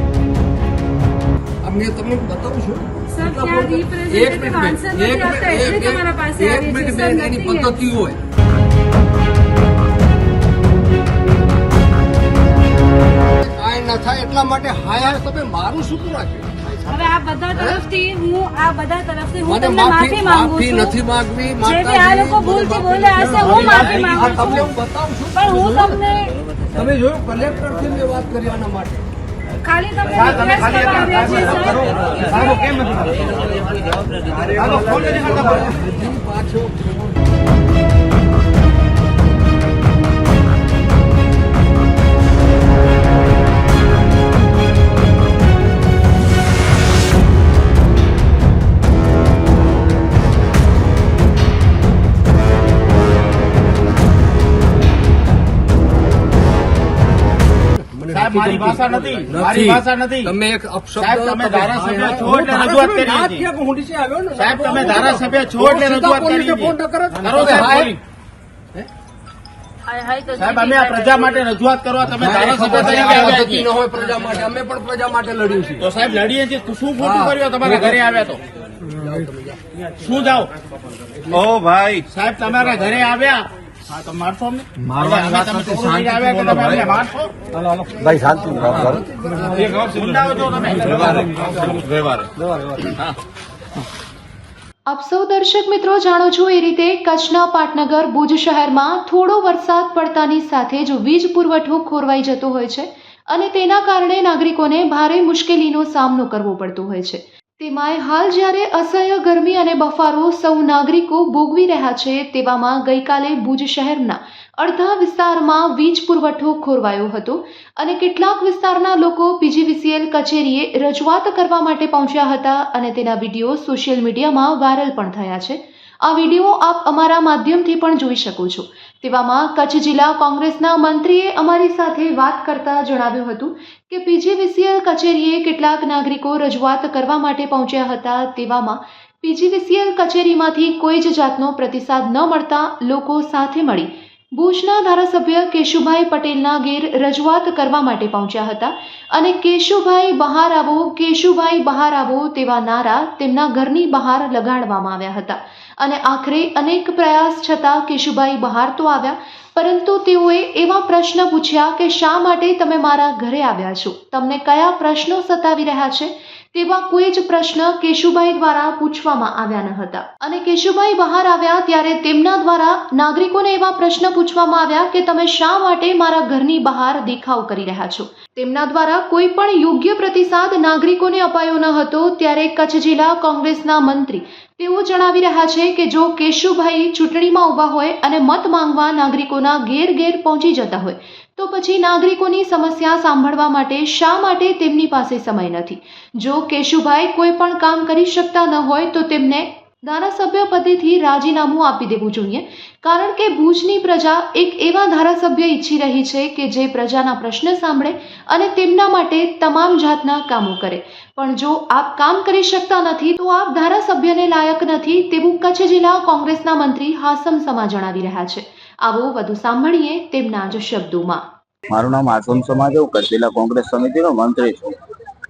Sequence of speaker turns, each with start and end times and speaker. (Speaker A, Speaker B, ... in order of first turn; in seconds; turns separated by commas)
Speaker A: 1.6-8.2, Speaker B: 3.1-7.8, Speaker A: 13.3-16.8, Speaker B: 16.9-21.0, Speaker A: 17.6-17.8, Speaker A: 19.4-26.0, Speaker B: 21.6-24.8, Speaker B: 25.3-26.4, Speaker A: 26.7-29.1, Speaker B: 29.6-32.6, Speaker A: 31.2-33.5, Speaker A: 34.4-37.2, Speaker A: 57.7-68.0, Speaker C: 58.3-60.2, Speaker C: 61.1-63.4, Speaker C: 64.4-66.6, Speaker C: 67.2-67.9, Speaker B: 70.0-70.8, Speaker C: 70.4-73.6, Speaker D: 70.8-71.3, Speaker A: 72.1-75.9, Speaker D: 72.4-72.9, Speaker C: 75.9-78.4, Speaker A: 77.0-78.0, Speaker A: 78.8-79.8, Speaker C: 80.0-80.5, Speaker C: 81.5-87.3, Speaker A: 87.9-90.0, Speaker C: 89.9-92.2, Speaker E: 94.9-221.2, Speaker D: 221.7-224.8